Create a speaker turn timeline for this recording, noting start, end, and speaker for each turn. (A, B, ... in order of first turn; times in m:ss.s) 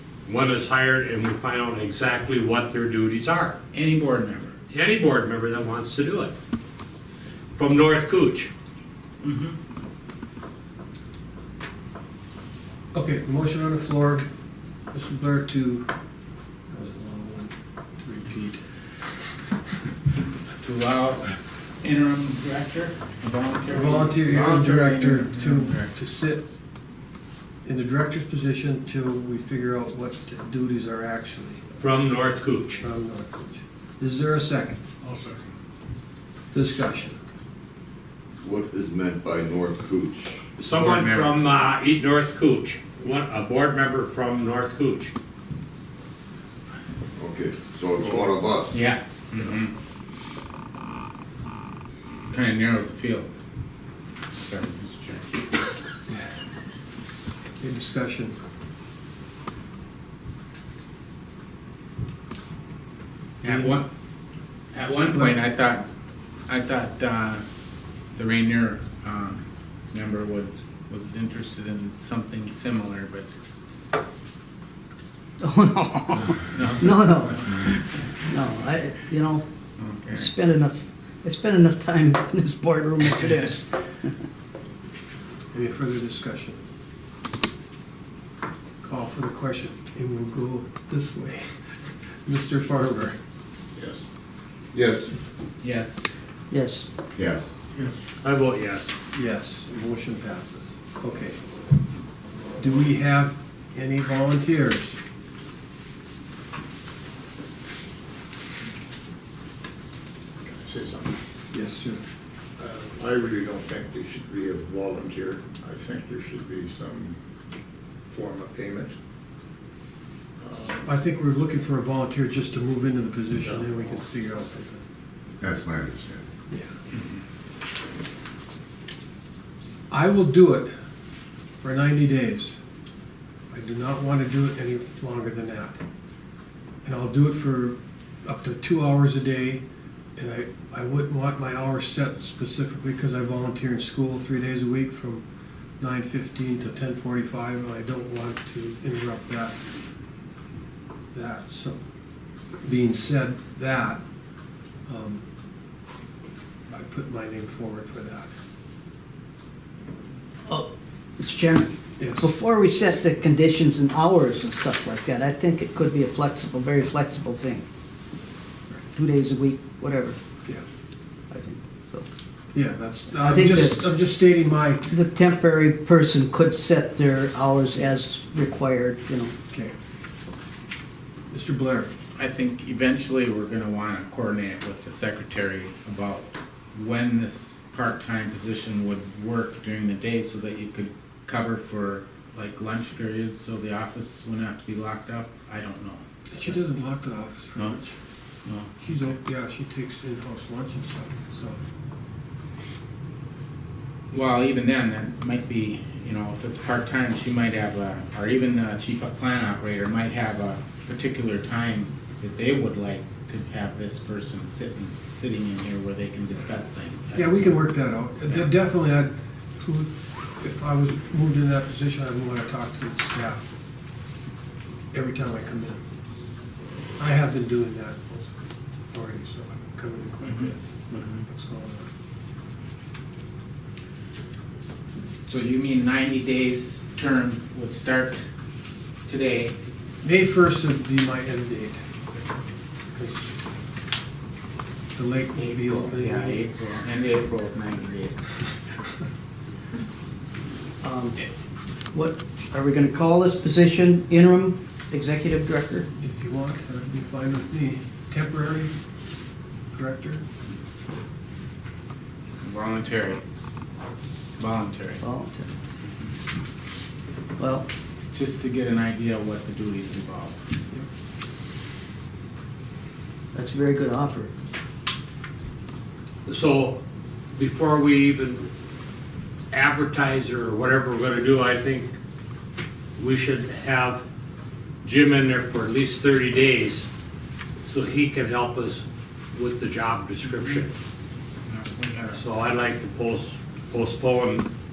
0:00.2-0:03.6 A
0:03.7-0:04.5 B
0:04.7-0:06.3 A
0:07.6-0:08.5 A
0:09.2-0:09.5 B
0:12.9-0:14.2 C
0:14.9-0:15.9 C
0:16.7-0:18.6 C
0:20.6-0:25.9 B
0:23.7-0:26.4 C
0:27.6-0:31.6 C
0:31.8-0:32.8 A
0:32.8-0:34.8 C
0:35.0-0:35.4 D
0:36.5-0:37.2 C
0:38.4-0:40.4 E
0:40.6-0:45.1 A
0:40.7-0:41.3 B
0:47.2-0:48.7 E
0:48.7-0:49.7 B
0:52.3-0:53.3 B
0:54.4-0:55.3 B
0:57.6-0:58.4 C
1:03.4-1:03.8 C
1:03.4-1:03.8 B
1:04.7-1:05.9 B
1:05.0-1:05.3 C
1:06.5-1:07.4 B
1:08.2-1:13.3 B
1:15.4-1:19.4 F
1:16.5-1:17.7 B
1:19.8-1:20.3 B
1:20.1-1:24.1 F
1:25.5-1:26.6 C
1:28.8-1:31.5 C
1:32.2-1:33.2 C
1:33.8-1:34.0 D
1:34.7-1:35.1 E
1:35.6-1:36.0 B
1:36.5-1:36.9 F
1:37.2-1:37.4 E
1:38.2-1:38.9 A
1:39.1-1:41.4 C
1:42.6-1:45.0 C
1:50.4-1:51.1 D
1:51.5-1:52.0 C
1:52.6-1:57.2 D
1:58.1-1:59.0 D
2:00.4-2:00.8 D
2:00.8-2:04.8 C
2:03.4-2:03.7 D
2:05.4-2:06.2 E
2:09.9-2:10.7 C
2:11.6-2:12.6 C
2:13.5-2:15.8 C
2:16.8-2:19.6 C
2:20.2-2:25.2 C
2:25.8-2:29.7 C
2:31.1-2:31.8 C
2:32.6-2:34.0 C
2:34.8-2:35.2 C
2:36.7-2:38.3 C
2:40.5-2:47.6 F
2:42.0-2:42.3 C
2:48.8-2:50.2 F
2:51.3-2:52.0 F
2:52.5-2:55.0 C
2:53.2-2:53.8 F
2:54.9-2:59.3 F
2:59.5-2:59.8 C
3:01.3-3:01.9 C
3:02.2-3:16.6 B
3:16.3-3:18.0 C
3:18.4-3:19.1 B
3:18.8-3:21.6 C
3:24.1-3:37.5 B
3:37.1-3:43.4 C
3:44.9-3:45.8 C
3:47.0-3:48.3 C
3:48.9-3:51.9 C
3:50.2-3:51.2 B
3:55.3-3:58.2 B
3:59.1-3:59.5 B
4:00.0-4:01.8 C
4:02.9-4:03.3 C
4:04.9-4:06.5 C
4:05.4-4:08.2 B
4:10.8-4:11.3 F
4:11.9-4:15.9 F
4:16.0-4:18.7 C
4:19.7-4:20.2 C
4:22.4-4:23.2 B
4:24.4-4:25.0 B
4:25.0-4:25.5 F
4:27.4-4:27.7 F
4:28.1-4:30.4 B
4:33.3-4:34.3 F
4:36.3-4:36.8 A
4:37.4-4:38.5 A
4:39.5-4:41.9 A
4:43.0-4:44.0 A
4:44.8-4:46.9 A
4:47.6-4:50.7 A
4:51.5-4:52.2 B
4:52.1-4:54.5 A